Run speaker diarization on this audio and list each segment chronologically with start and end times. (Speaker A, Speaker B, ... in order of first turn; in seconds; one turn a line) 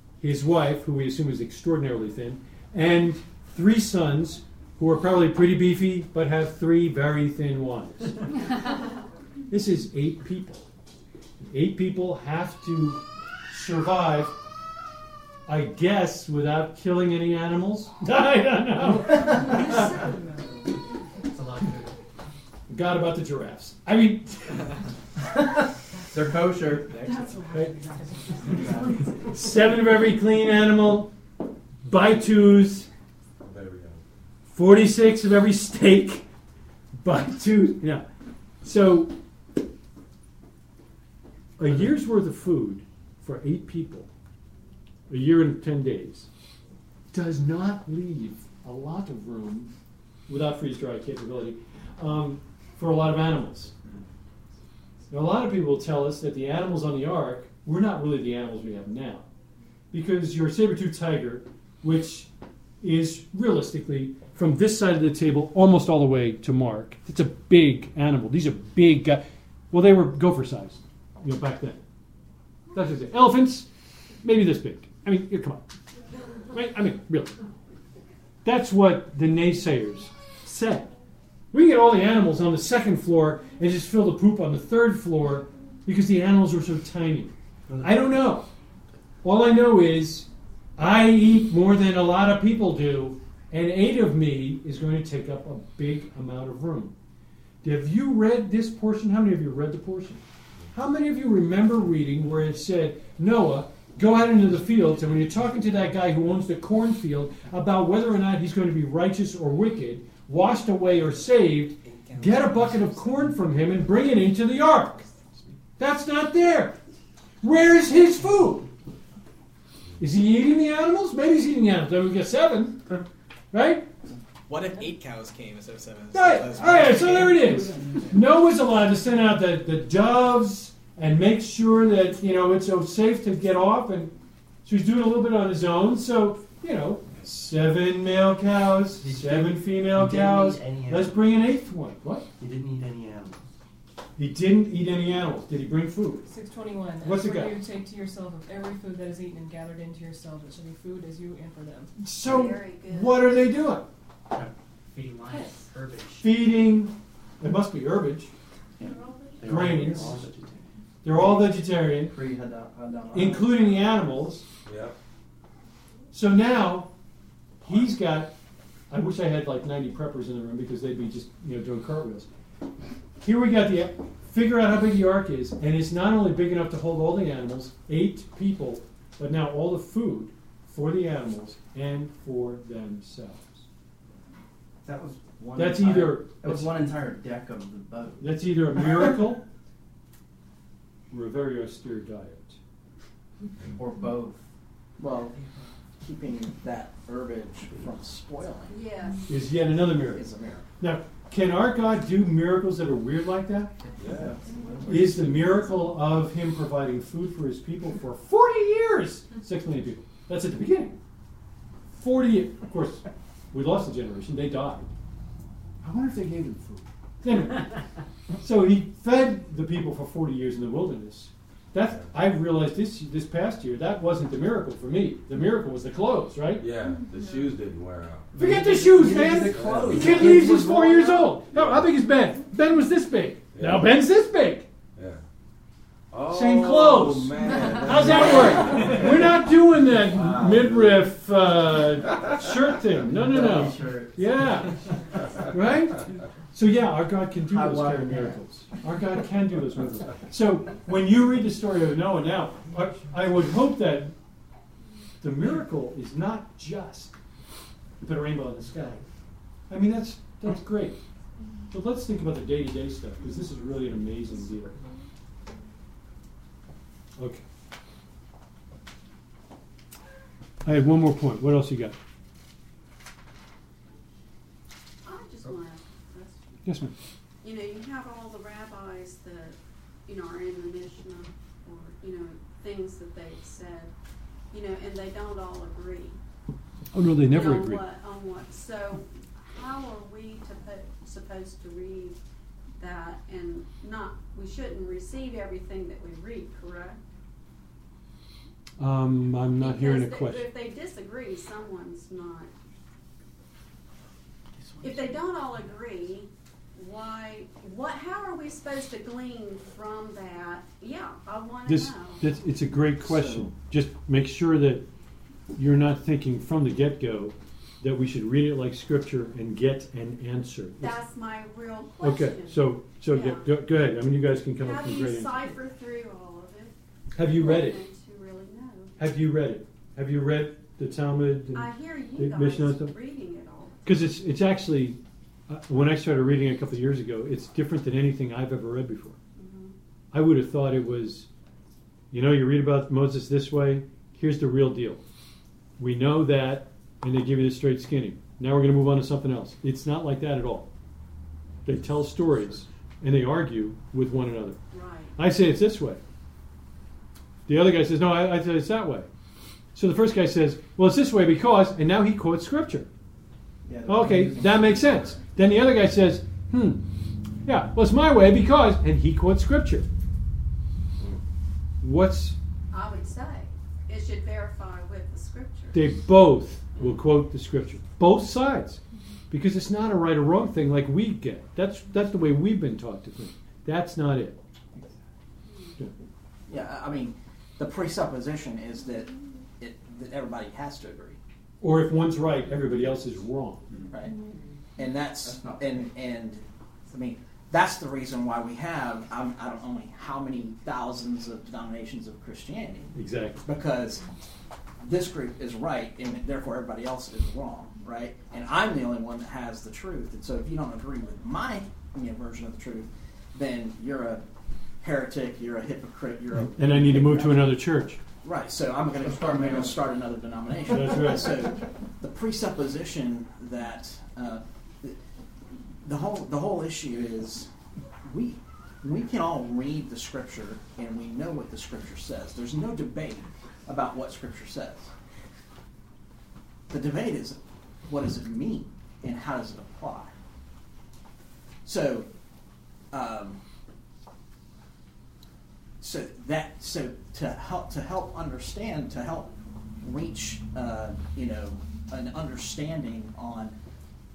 Speaker A: 0.2-8.2
Speaker A: 9.5-10.7
Speaker A: 11.4-14.4
Speaker A: 15.4-20.1
Speaker B: 19.2-20.4
Speaker C: 21.2-22.0
Speaker A: 22.7-24.7
Speaker D: 26.1-27.5
Speaker B: 27.0-29.1
Speaker A: 27.5-27.8
Speaker D: 28.4-29.1
Speaker A: 28.6-31.1
Speaker A: 31.8-32.9
Speaker E: 33.4-34.0
Speaker A: 34.5-36.2
Speaker A: 37.0-38.1
Speaker A: 38.6-39.1
Speaker A: 41.6-44.1
Speaker A: 45.1-46.3
Speaker A: 47.1-49.7
Speaker A: 50.3-53.7
Speaker A: 55.1-59.3
Speaker A: 59.9-62.3
Speaker A: 62.8-71.8
Speaker A: 72.7-73.7
Speaker A: 74.2-75.6
Speaker A: 76.5-77.4
Speaker A: 78.4-80.9
Speaker A: 81.5-88.5
Speaker F: 87.7-88.3
Speaker A: 89.2-96.9
Speaker A: 97.6-115.0
Speaker G: 112.4-112.8
Speaker A: 115.8-116.8
Speaker A: 117.4-118.7
Speaker A: 120.0-123.9
Speaker G: 124.5-128.1
Speaker A: 126.1-134.1
Speaker A: 134.6-142.3
Speaker F: 139.0-141.5
Speaker F: 142.4-143.4
Speaker A: 144.2-146.3
Speaker B: 146.2-151.9
Speaker A: 147.0-147.6
Speaker A: 152.0-153.8
Speaker H: 152.1-153.5
Speaker C: 154.3-156.3
Speaker A: 156.2-158.3
Speaker H: 158.8-159.5
Speaker F: 159.4-160.7
Speaker A: 159.4-160.3
Speaker A: 161.0-162.2
Speaker D: 161.1-164.0
Speaker A: 163.1-164.5
Speaker E: 164.6-164.9
Speaker A: 166.1-166.9
Speaker A: 167.6-168.3
Speaker A: 168.9-172.3
Speaker A: 173.2-183.6
Speaker D: 184.8-189.2
Speaker A: 185.5-186.8
Speaker A: 188.2-189.4
Speaker A: 191.1-192.6
Speaker D: 193.7-194.4
Speaker I: 195.0-195.4
Speaker I: 196.0-198.8
Speaker H: 198.7-199.3
Speaker A: 199.3-200.3
Speaker I: 199.6-200.7
Speaker A: 200.8-203.7
Speaker E: 204.0-204.4
Speaker A: 204.8-211.0
Speaker A: 211.9-214.9
Speaker A: 215.8-217.8
Speaker A: 218.4-226.7
Speaker E: 221.8-222.1
Speaker E: 226.6-228.3
Speaker D: 228.3-231.3
Speaker A: 228.3-234.7
Speaker E: 229.3-230.4
Speaker E: 231.5-231.9
Speaker E: 233.5-233.9
Speaker E: 234.9-235.2
Speaker E: 236.1-239.3
Speaker A: 236.3-244.9
Speaker F: 238.7-239.0
Speaker F: 240.2-240.5
Speaker E: 240.6-241.0
Speaker F: 243.0-244.9
Speaker D: 243.3-243.9
Speaker A: 245.5-254.1
Speaker F: 247.5-248.4
Speaker A: 255.2-257.1
Speaker A: 258.0-259.1
Speaker A: 259.7-261.0
Speaker A: 261.7-264.8
Speaker A: 267.2-267.4
Speaker A: 270.6-272.0
Speaker H: 275.0-276.7
Speaker A: 276.6-276.9
Speaker H: 277.4-283.9
Speaker H: 284.5-286.2
Speaker A: 286.9-287.8
Speaker H: 287.3-292.2
Speaker H: 292.8-297.0
Speaker A: 298.8-300.5
Speaker H: 299.6-302.5
Speaker H: 304.8-312.3
Speaker A: 311.7-314.9
Speaker A: 315.5-321.0
Speaker H: 320.8-323.6
Speaker A: 322.0-325.5
Speaker H: 324.6-328.9
Speaker A: 327.1-327.8
Speaker A: 329.0-332.9
Speaker H: 331.5-333.8
Speaker A: 333.8-339.2
Speaker H: 339.4-339.7
Speaker A: 340.1-341.3
Speaker A: 342.1-345.0
Speaker A: 345.8-350.7
Speaker A: 351.6-354.6
Speaker H: 354.7-355.1
Speaker A: 355.2-356.0
Speaker A: 357.5-359.1
Speaker A: 359.7-362.9
Speaker D: 363.6-365.2
Speaker A: 363.9-366.8
Speaker A: 367.4-369.9
Speaker A: 371.8-372.4
Speaker H: 372.7-375.9
Speaker A: 375.7-378.8
Speaker A: 379.3-384.4
Speaker H: 385.5-385.7
Speaker I: 386.5-391.2
Speaker A: 391.6-393.6
Speaker D: 393.7-394.0
Speaker I: 393.9-394.1
Speaker I: 394.8-404.1
Speaker D: 395.2-395.9
Speaker A: 402.9-403.4
Speaker I: 404.8-414.2
Speaker I: 414.8-417.5
Speaker A: 416.5-418.0
Speaker I: 418.2-425.0
Speaker D: 419.0-419.9
Speaker A: 420.7-421.3
Speaker I: 425.8-427.5
Speaker I: 428.1-434.9
Speaker I: 436.7-440.1
Speaker I: 441.6-442.1
Speaker I: 442.9-443.4
Speaker I: 445.8-453.5